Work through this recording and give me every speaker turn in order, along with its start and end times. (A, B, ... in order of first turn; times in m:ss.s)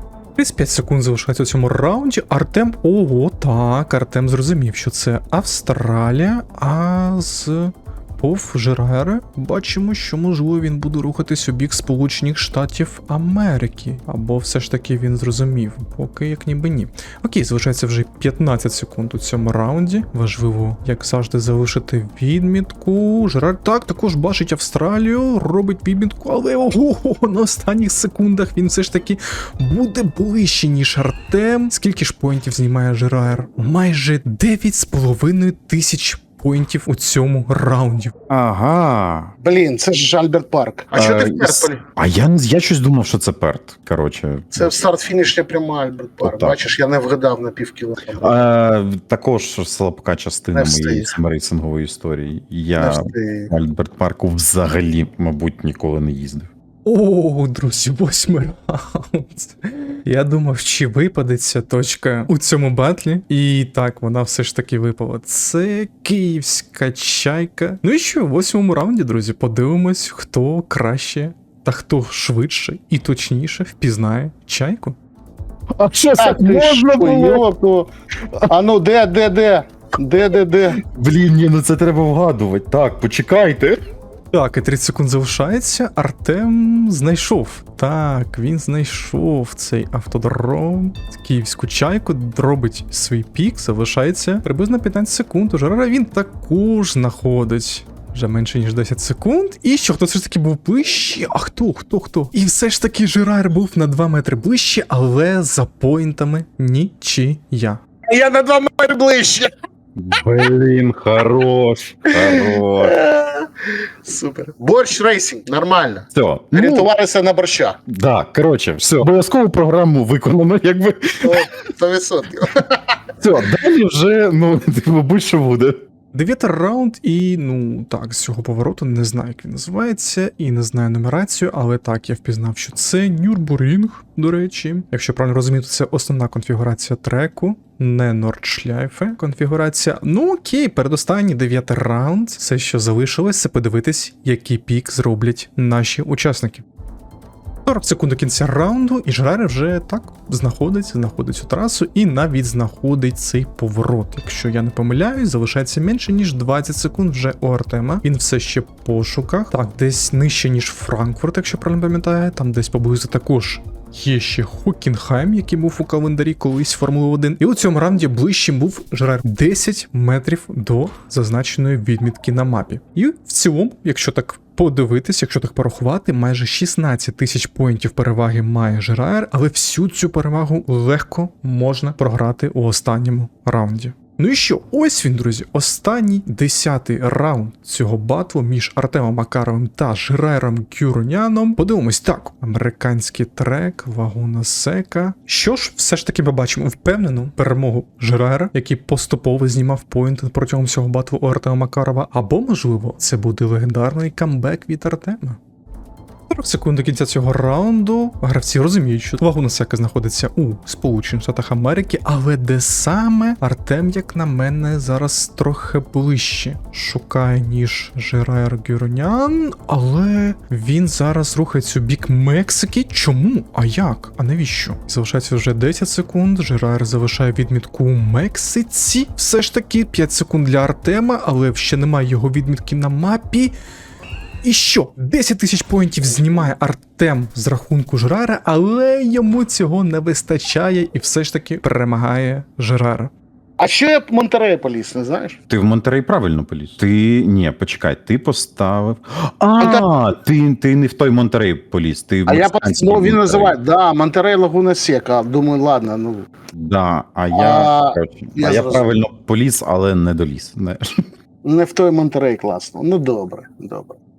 0:00.4-0:38.1 A
0:38.3-0:39.3 B
0:39.4-0:41.8 C
0:40.9-0:44.7 B
0:44.5-0:48.4 C
0:46.2-0:46.6 B
0:48.2-0:56.5 B
0:50.5-0:51.1 C
0:52.8-0:53.5 C
0:56.8-1:15.0 A
1:15.8-1:17.4 B
1:16.2-1:17.9 C
1:18.5-1:20.8 C
1:20.8-1:23.8 B
1:24.3-1:47.8 A
1:48.1-1:49.5 C
1:50.0-1:52.9 B
1:52.1-1:57.8 C
1:56.1-1:56.9 B
1:57.9-2:01.4 B
2:01.2-2:03.0 C
2:03.2-2:05.7 B
2:06.1-2:26.6 A
2:27.6-3:25.4 A
3:26.3-3:53.5 A
3:54.4-4:03.1 A
4:03.6-4:05.4 C
4:05.5-4:13.6 B
4:09.6-4:09.8 C
4:12.3-4:16.3 C
4:16.5-4:20.9 B
4:17.3-4:18.9 C
4:21.4-4:24.0 C